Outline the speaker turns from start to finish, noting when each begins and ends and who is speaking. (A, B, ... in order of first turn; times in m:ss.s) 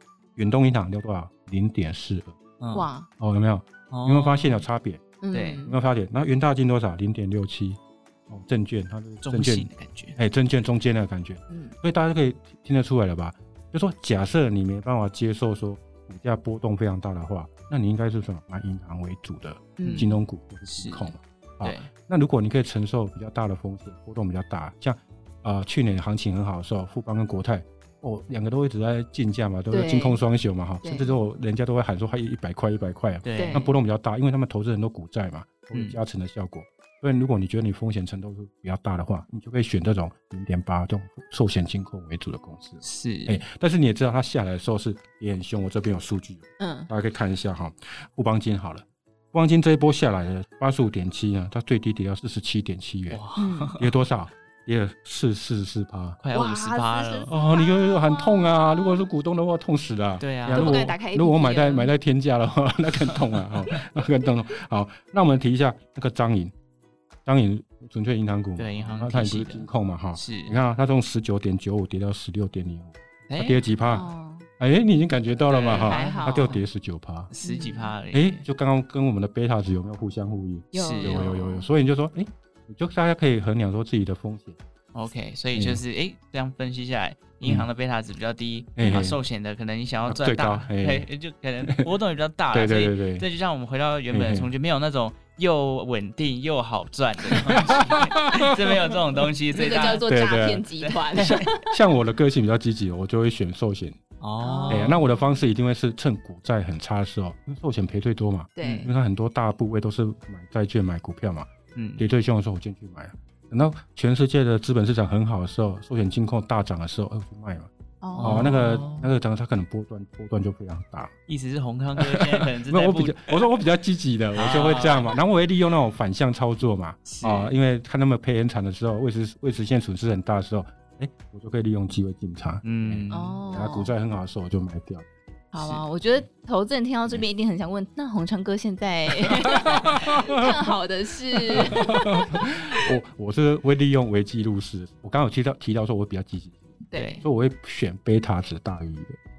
0:00.4-0:02.4 A
0:02.6-0:02.9 B
0:02.7-0:03.1 C
0:03.2-0:05.0 A
0:03.9-0:04.6 B
0:05.2-0:05.8 C
0:05.3-0:05.6 B
0:05.6-0:53.2 A
0:09.2-0:10.2 B
0:11.5-0:11.8 C
0:19.8-0:20.2 C
0:19.8-0:20.1 B
0:20.7-0:21.1 B
0:21.6-0:21.9 B
0:29.7-0:30.2 C
0:30.8-0:31.2 C
0:33.2-0:33.6 B
0:33.4-0:33.7 C
0:42.8-0:43.4 B
0:46.6-0:46.9 C
0:53.1-0:53.9 B
0:53.4-0:53.7 C
0:53.8-0:56.2 A
0:56.2-0:57.3 B
0:56.3-0:59.1 C
0:57.3-1:06.5 A
1:00.2-1:00.9 B
1:00.5-1:01.9 C
1:07.2-1:14.1 A
1:08.6-1:10.6 B
1:13.3-1:13.6 B
1:13.9-1:14.5 C
1:14.6-1:17.3 A
1:15.5-1:16.6 B
1:15.7-1:16.6 C
1:17.3-1:18.4 B
1:17.4-1:17.9 C
1:18.1-1:24.6 A
1:20.7-1:21.7 C
1:20.8-1:21.3 B
1:24.9-1:40.1 B
1:25.5-1:25.8 A
1:28.8-1:29.2 A
1:30.1-1:31.1 A
1:32.5-1:33.3 A
1:34.1-1:34.5 A
1:37.3-1:39.2 A
1:39.5-1:41.7 C
1:40.0-1:44.0 A
1:40.8-1:41.5 B
1:44.2-1:45.0 B
1:44.4-1:45.1 C
1:44.7-2:01.1 A
1:48.6-1:48.9 C
1:48.6-1:48.9 B
1:51.8-1:52.0 B
1:58.0-1:59.0 C
1:58.2-1:59.0 B
2:01.3-2:03.4 B
2:02.0-2:15.1 A
2:04.4-2:05.2 B
2:07.1-2:07.5 B
2:12.6-2:13.4 B
2:13.1-2:13.9 C
2:15.5-2:22.9 C
2:15.6-2:15.8 B
2:19.6-2:20.7 A
2:21.5-2:29.2 A
2:26.9-2:27.2 C
2:27.0-2:27.2 B